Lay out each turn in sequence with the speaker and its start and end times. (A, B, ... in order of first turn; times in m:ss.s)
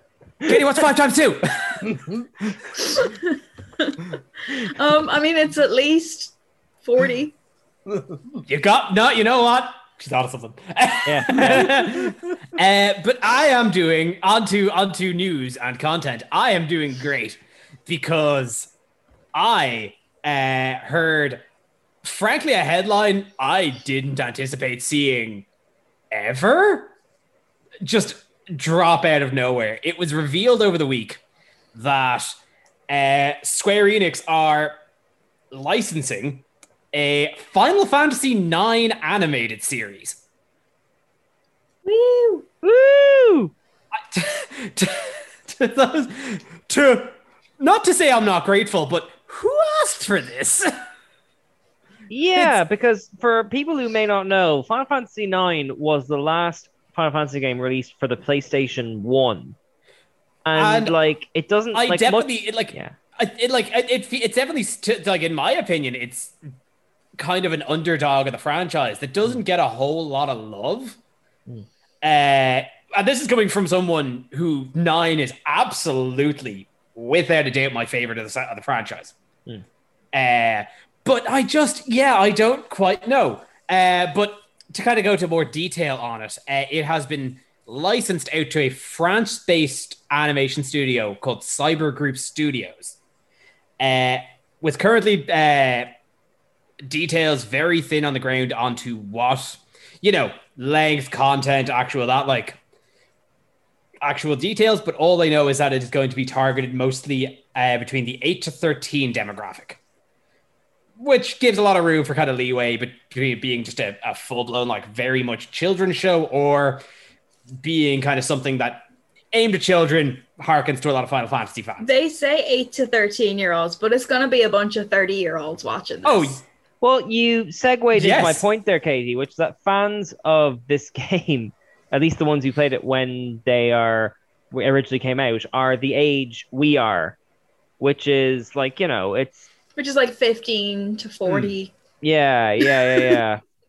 0:00.4-0:02.0 A
0:02.8-0:07.3 B
0:08.4-0:18.7 A
0:11.0-0:11.6 C
0:19.3-0:21.4 A
0:22.0-0:25.5 A
0:26.1-0:26.9 A
0:27.8-0:31.2 A
0:31.7-0:32.4 A
0:32.9-0:34.8 A
0:35.5-0:40.2 A
0:41.8-0:42.5 B
0:42.6-0:43.5 C
0:44.0-0:50.7 A
0:52.1-0:59.6 C
1:00.4-1:02.9 C
1:00.5-1:00.9 A
1:01.7-1:06.3 A
1:07.2-1:11.0 A
1:12.0-1:19.1 A
1:20.1-1:33.0 A
1:33.8-1:35.9 A
1:36.8-1:42.6 A
1:44.0-1:49.8 A
1:51.0-1:56.8 A
1:57.6-2:01.9 A
2:01.8-2:06.4 B
2:06.0-2:06.4 A
2:06.8-2:17.2 C
2:07.9-2:08.4 A
2:17.8-2:19.5 C
2:19.8-2:21.7 B
2:21.3-2:21.5 A
2:22.0-2:23.4 C
2:22.7-2:23.2 B